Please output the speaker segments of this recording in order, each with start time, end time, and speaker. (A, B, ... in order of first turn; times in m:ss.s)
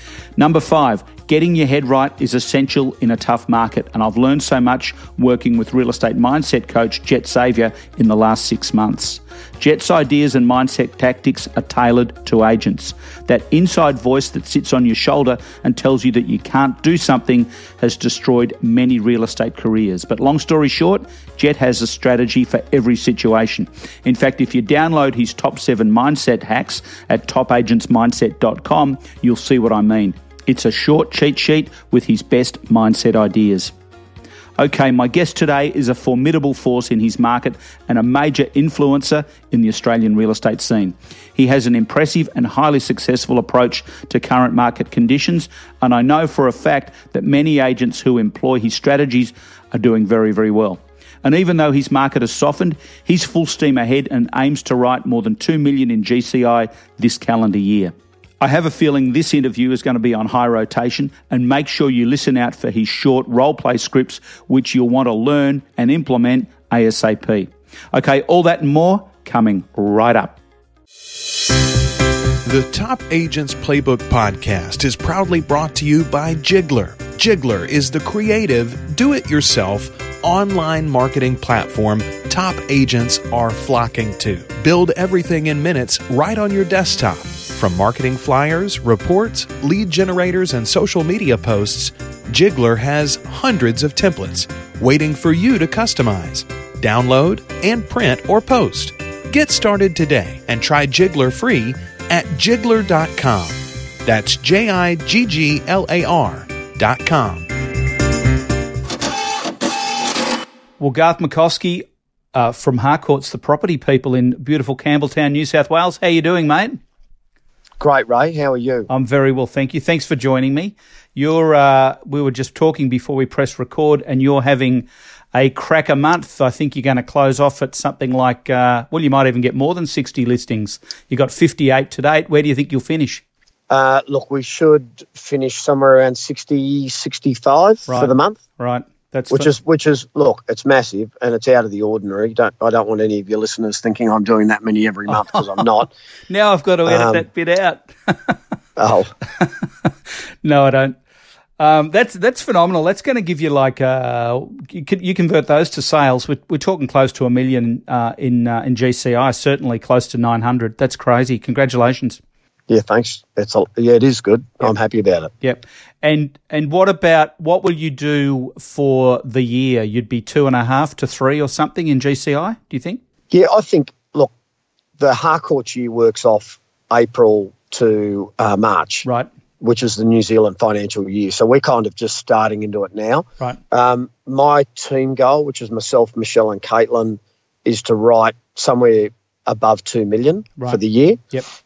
0:00.4-0:33.7 A
0:34.6-1:10.4 A
1:12.4-1:47.5 B
1:50.8-1:56.8 A
1:57.8-1:58.9 C
1:58.9-2:13.2 A
2:13.7-2:18.4 C
2:17.9-2:19.5 A
2:19.3-2:25.9 C
2:25.1-2:25.7 A
2:26.3-2:28.4 A
2:26.9-2:27.2 C
2:28.8-2:29.1 C
2:29.4-2:29.9 A
2:30.4-2:31.0 A
2:31.6-2:42.2 A
2:42.7-2:45.3 C
2:45.4-2:53.0 A
2:53.3-2:54.3 C
2:55.0-2:59.1 C
2:59.6-3:11.2 C